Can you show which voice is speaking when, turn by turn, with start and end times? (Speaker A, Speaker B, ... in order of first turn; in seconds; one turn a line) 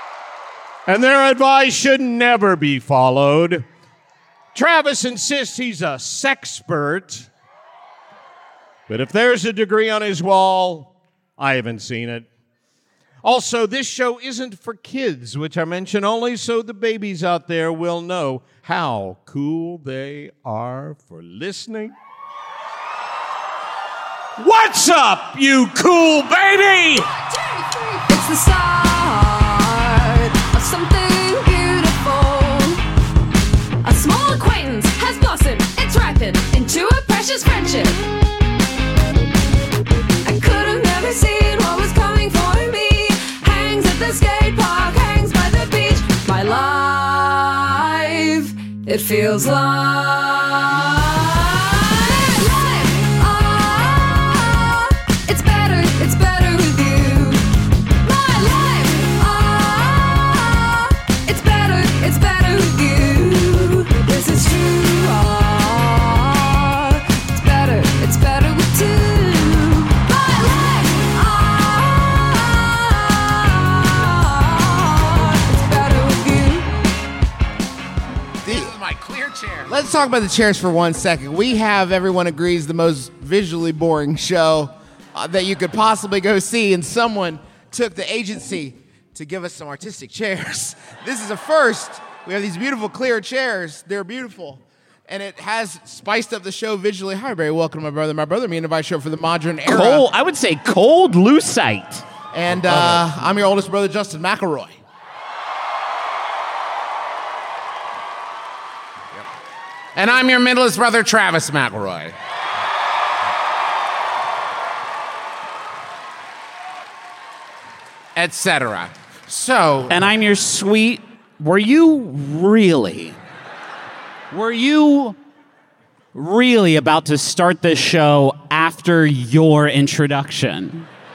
Speaker A: 0.9-3.6
Speaker A: 4.5-7.3
Speaker A: 8.9-12.3
Speaker A: 13.2-21.9
Speaker A: 24.4-27.1
Speaker B: 26.9-32.8
Speaker B: 33.8-38.0
Speaker B: 40.2-57.4
Speaker B: 58.0-76.7
Speaker C: 78.4-78.7
Speaker D: 78.5-79.7
Speaker C: 79.7-100.1
Speaker E: 99.7-102.0
Speaker C: 102.3-104.8
Speaker D: 110.0-112.1
Speaker D: 118.2-120.1
Speaker E: 119.9-123.2
Speaker E: 124.3-125.2
Speaker E: 126.2-130.9